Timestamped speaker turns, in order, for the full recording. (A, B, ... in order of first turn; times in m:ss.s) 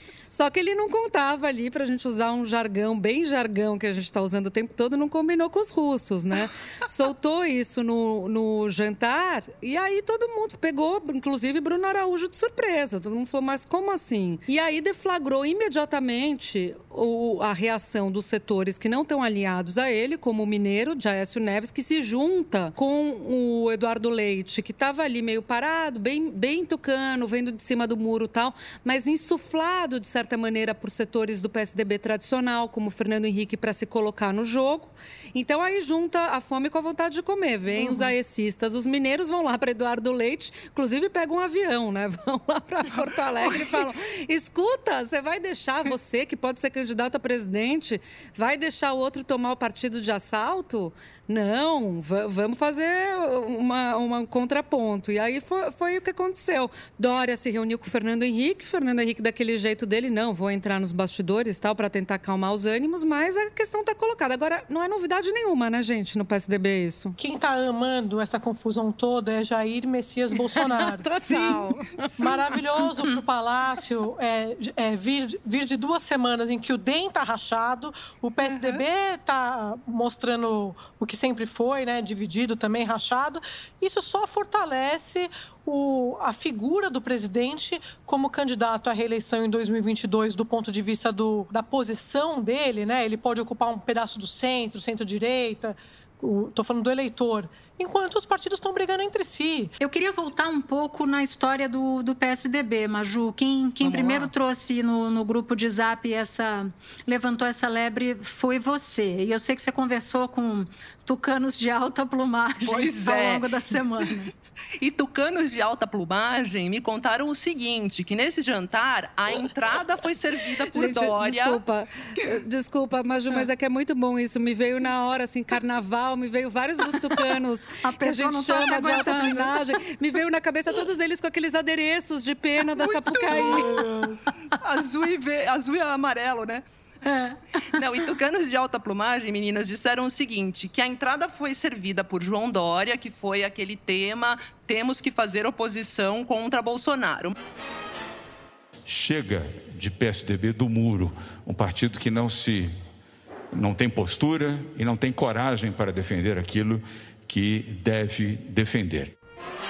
0:00.3-1:07.2 A
1:07.2-1:11.1 B
1:10.5-1:12.4 A
1:12.2-1:39.7 B
1:39.8-1:54.3 C
1:43.8-1:44.3 D
1:52.6-1:53.5 D
1:54.8-2:01.6 D
2:00.7-2:13.8 A
2:07.8-2:09.6 C
2:12.8-2:14.3 C
2:13.3-2:13.7 D
2:13.3-2:14.1 B
2:14.6-2:16.6 D
2:17.0-2:17.6 C
2:17.7-2:27.4 D
2:28.8-2:32.8 E
2:33.5-2:39.1 E